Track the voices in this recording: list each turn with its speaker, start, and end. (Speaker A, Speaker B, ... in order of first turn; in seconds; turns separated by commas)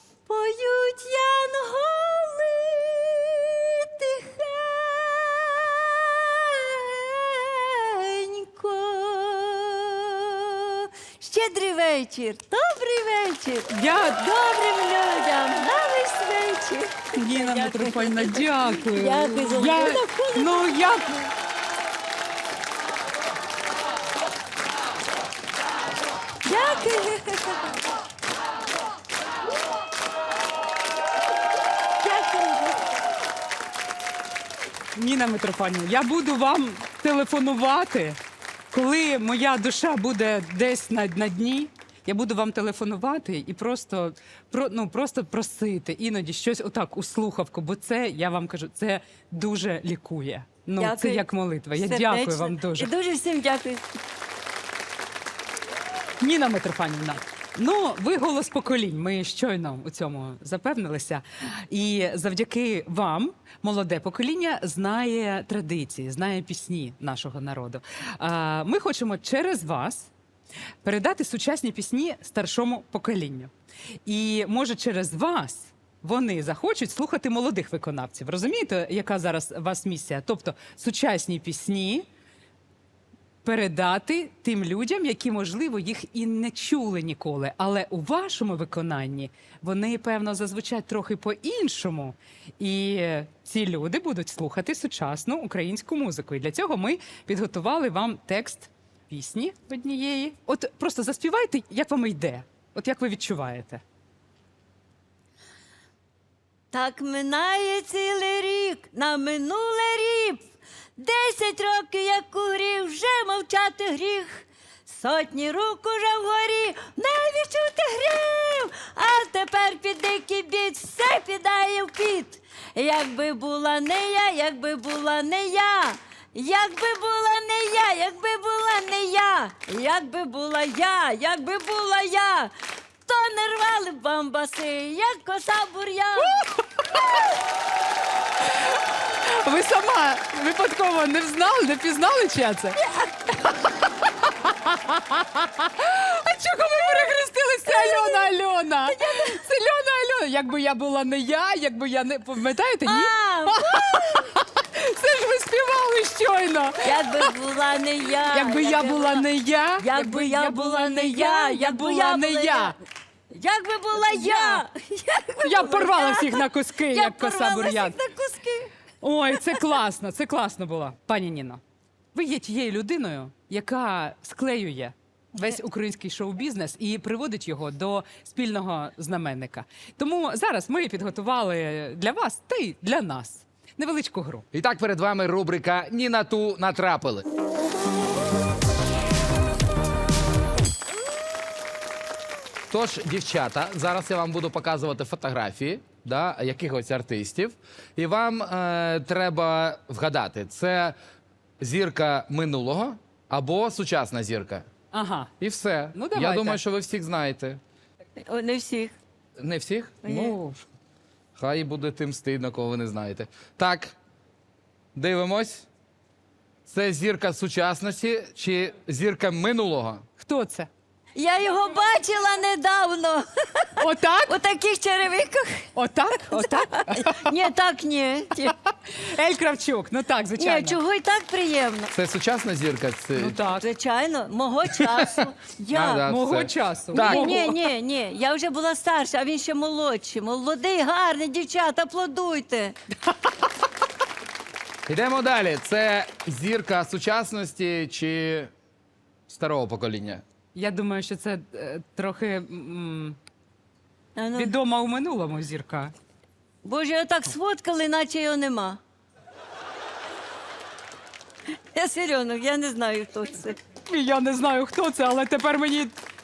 Speaker A: 0.3-20.8, Speaker B: 13.7-14.2, Speaker B: 17.1-21.3, Speaker A: 26.4-27.7, Speaker A: 32.0-33.0, Speaker B: 35.0-38.2, Speaker B: 38.7-52.9, Speaker A: 50.8-53.9, Speaker B: 56.2-70.1, Speaker B: 70.8-73.5, Speaker B: 74.1-82.1, Speaker B: 83.4-103.8, Speaker A: 106.7-110.5, Speaker A: 111.0-136.4, Speaker B: 136.2-137.2, Speaker B: 138.4-142.8, Speaker B: 144.0-157.3, Speaker A: 147.7-149.4, Speaker A: 152.9-154.4, Speaker A: 156.8-159.3, Speaker B: 158.3-162.8, Speaker A: 159.8-162.8, Speaker A: 163.3-168.7, Speaker B: 164.0-164.6, Speaker B: 165.4-168.0, Speaker B: 169.0-171.6, Speaker B: 172.1-184.4, Speaker C: 184.5-187.2, Speaker C: 192.7-201.0, Speaker C: 201.6-204.7, Speaker B: 204.9-205.3, Speaker C: 205.4-207.6, Speaker B: 205.9-206.6, Speaker A: 208.3-208.9, Speaker C: 209.4-210.4, Speaker A: 210.0-210.4, Speaker B: 210.4-210.6, Speaker C: 211.4-213.9, Speaker C: 214.9-215.7, Speaker C: 216.7-220.0, Speaker B: 220.2-220.7, Speaker A: 221.2-223.8, Speaker B: 223.8-224.4, Speaker A: 224.3-225.7, Speaker B: 225.8-227.2, Speaker A: 226.3-228.6, Speaker B: 228.9-230.8, Speaker A: 230.4-231.9, Speaker C: 231.9-233.4, Speaker B: 233.2-233.7, Speaker A: 233.6-236.1, Speaker C: 235.7-237.5, Speaker B: 236.1-237.6, Speaker A: 236.9-242.8, Speaker C: 244.9-248.5, Speaker C: 249.3-250.2, Speaker B: 250.6-253.2, Speaker A: 254.2-254.6, Speaker B: 254.4-255.9, Speaker A: 256.6-258.8, Speaker A: 261.8-263.6, Speaker B: 263.9-265.9